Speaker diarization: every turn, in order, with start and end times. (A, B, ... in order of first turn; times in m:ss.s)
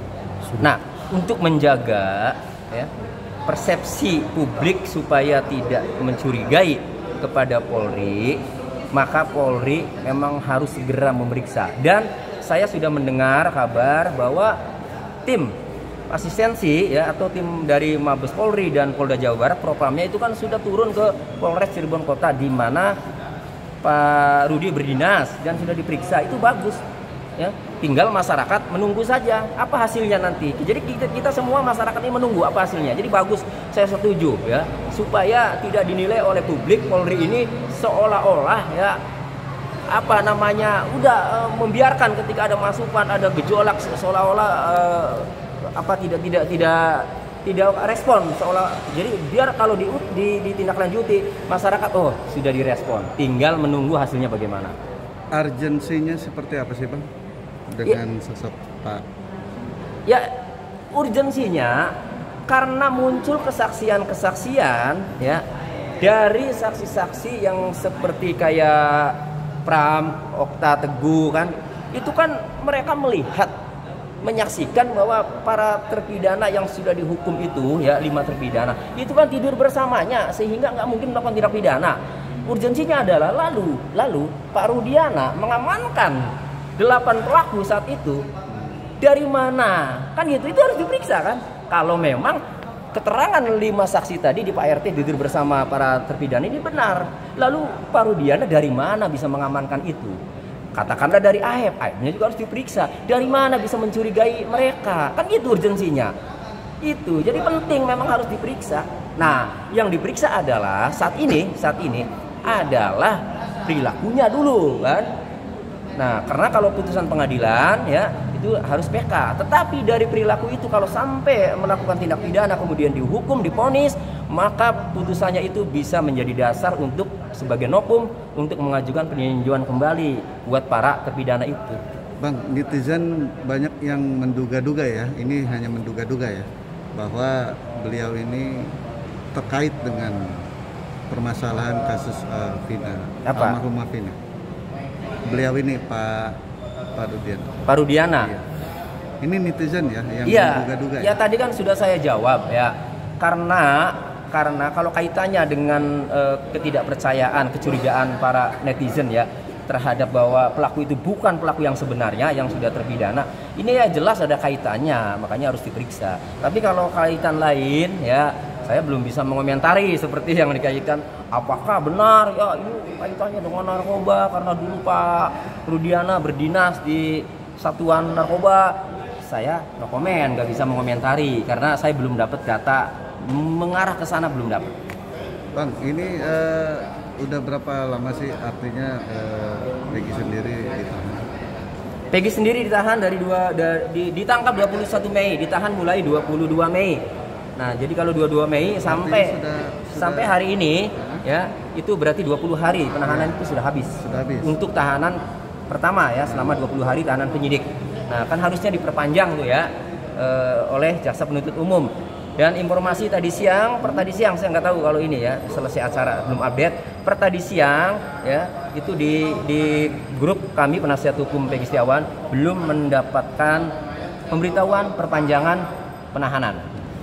0:00.6-0:02.9 A
0:03.5-0:14.6 A
0:15.2-0:15.5 A
0:16.1-0:23.0 A
0:23.8-0:26.8 A
0:27.4-0:39.0 A
0:39.9-0:54.7 A
0:55.3-0:57.1 B
0:57.7-0:59.0 B
1:00.9-1:01.9 A
1:02.5-1:05.4 A
1:06.0-1:13.5 A
1:14.2-1:28.2 A
1:29.0-1:32.4 A
1:32.9-1:40.2 A
1:40.7-1:46.1 A
1:46.8-1:55.1 A
1:56.0-2:11.8 A
2:12.2-2:18.7 B
2:19.3-2:20.4 B
2:21.1-2:24.2 B
2:23.3-2:23.6 A
2:25.2-2:26.4 B
2:26.9-2:27.5 B
2:27.7-2:28.3 A
2:29.2-2:31.2 B
2:30.2-3:04.7 A
3:05.5-3:11.2 B
3:12.1-3:17.0 A
3:17.6-3:19.4 A
3:18.8-3:20.4 B
3:19.9-3:43.7 A
3:20.9-3:21.2 B
3:23.1-3:23.3 B
3:24.0-3:24.5 B
3:44.3-3:46.7 A